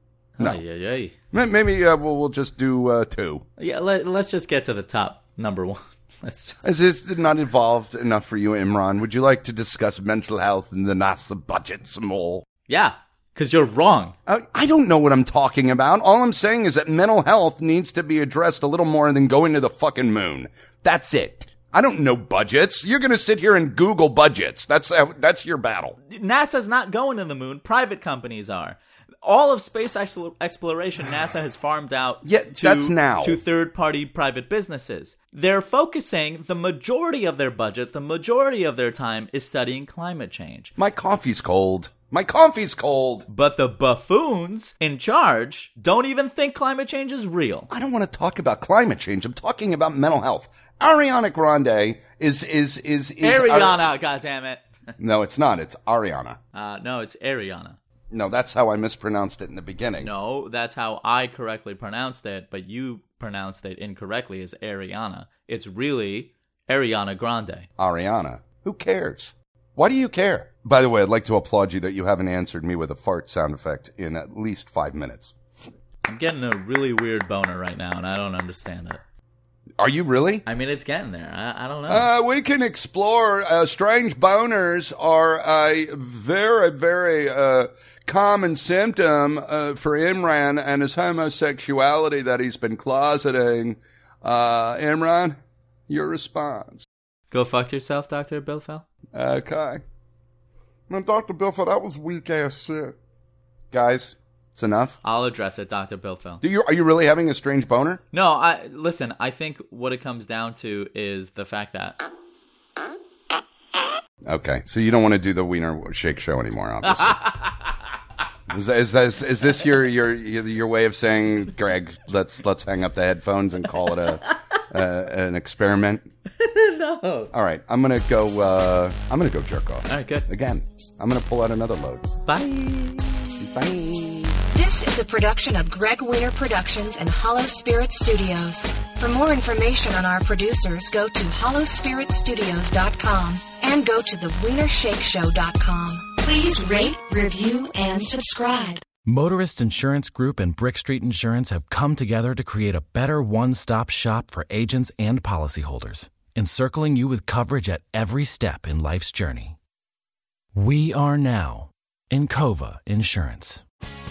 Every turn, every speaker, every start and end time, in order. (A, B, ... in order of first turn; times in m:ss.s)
0:00.4-0:01.1 A
0:01.3-0:03.4 B
0:03.6-0:06.6 A
0:06.6-0:12.4 B
0:12.7-0:14.1 A
0:14.2-0:26.0 B
0:26.1-0:40.7 A
0:32.2-0:33.4 B
0:40.8-0:43.2 B
0:43.3-0:47.7 A
0:47.7-0:53.8 B
0:53.2-0:54.6 A
0:55.0-0:56.4 B
0:56.5-0:57.8 A
0:58.1-1:00.1 B
1:00.0-1:07.7 A
1:07.8-1:15.3 B
1:16.0-1:19.0 A
1:19.8-1:20.4 B
1:20.4-1:22.1 A
1:21.9-1:35.4 B
1:35.9-1:36.9 B
1:37.3-1:38.8 A
1:39.1-1:39.8 B
1:40.9-1:42.9 C
1:42.2-1:42.9 B
1:43.7-1:45.0 B
1:45.0-1:46.4 A
1:46.4-1:48.0 B
1:48.1-1:52.0 A
1:54.2-1:57.2 B
1:56.8-1:57.7 A
1:58.5-2:06.1 B
2:06.4-2:07.3 A
2:07.3-2:12.1 B
2:09.9-2:10.2 A
2:12.2-2:13.5 A
2:13.4-2:14.4 B
2:14.5-2:28.8 D
2:29.0-2:39.6 E
2:40.5-2:43.6 E